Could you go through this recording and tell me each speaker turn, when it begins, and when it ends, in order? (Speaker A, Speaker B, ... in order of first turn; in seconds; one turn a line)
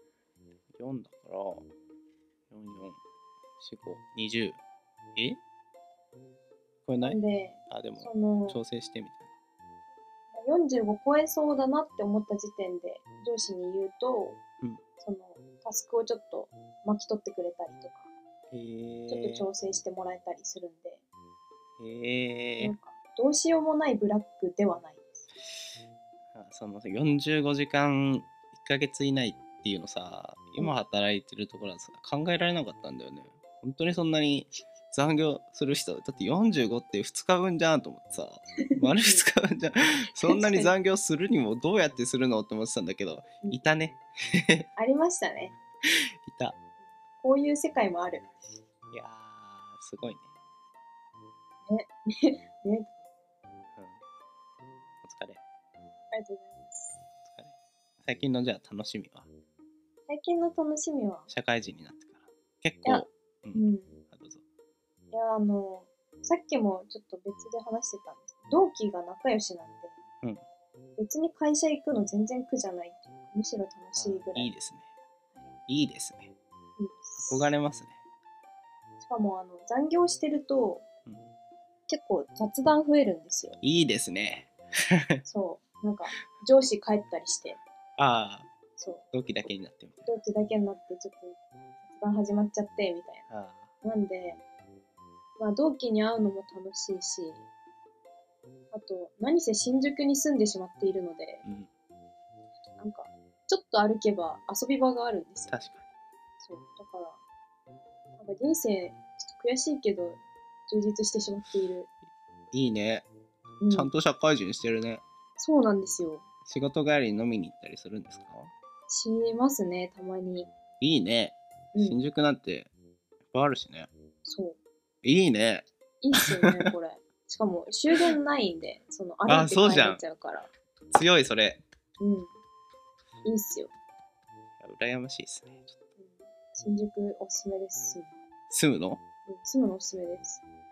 Speaker A: 0.8-1.7
Speaker A: 2.5-3.0
Speaker A: 3.6-4.6
Speaker A: 6.9-9.3
Speaker B: 7.0-8.6
Speaker B: 10.3-14.4
Speaker B: 15.0-18.1
Speaker A: 18.5-19.5
Speaker B: 19.1-21.0
Speaker A: 21.8-22.8
Speaker B: 22.6-25.2
Speaker A: 26.3-44.7
Speaker B: 38.7-39.3
Speaker B: 40.2-40.7
Speaker B: 44.8-45.5
Speaker A: 46.3-46.6
Speaker B: 47.2-48.3
Speaker A: 48.9-50.3
Speaker B: 51.7-52.9
Speaker A: 55.0-55.4
Speaker B: 56.1-57.0
Speaker A: 57.3-59.3
Speaker B: 60.1-61.3
Speaker A: 61.3-64.4
Speaker B: 62.9-64.0
Speaker B: 65.1-70.0
Speaker B: 71.0-74.5
Speaker A: 74.0-74.9
Speaker A: 75.7-76.3
Speaker B: 76.8-77.5
Speaker A: 77.2-78.0
Speaker B: 79.0-80.8
Speaker B: 81.9-83.6
Speaker A: 83.6-85.2
Speaker B: 85.2-87.6
Speaker A: 88.0-88.5
Speaker B: 88.8-89.1
Speaker A: 89.1-90.1
Speaker B: 90.1-93.3
Speaker A: 93.3-93.7
Speaker B: 93.8-94.4
Speaker B: 95.4-97.5
Speaker B: 98.7-101.4
Speaker B: 102.8-105.7
Speaker A: 105.5-105.8
Speaker B: 106.4-107.2
Speaker B: 108.2-111.9
Speaker A: 112.5-113.1
Speaker B: 113.6-113.9
Speaker A: 113.7-115.0
Speaker B: 115.4-116.2
Speaker A: 116.5-118.5
Speaker B: 118.9-120.5
Speaker A: 120.8-122.7
Speaker B: 121.8-122.0
Speaker A: 123.3-123.9
Speaker B: 124.2-124.6
Speaker A: 125.0-125.7
Speaker B: 126.0-130.5
Speaker A: 126.2-126.7
Speaker A: 129.3-130.0
Speaker A: 130.9-131.6
Speaker B: 132.0-132.3
Speaker B: 133.2-133.7
Speaker A: 134.6-135.8
Speaker B: 136.0-138.2
Speaker A: 138.5-139.0
Speaker B: 139.3-140.4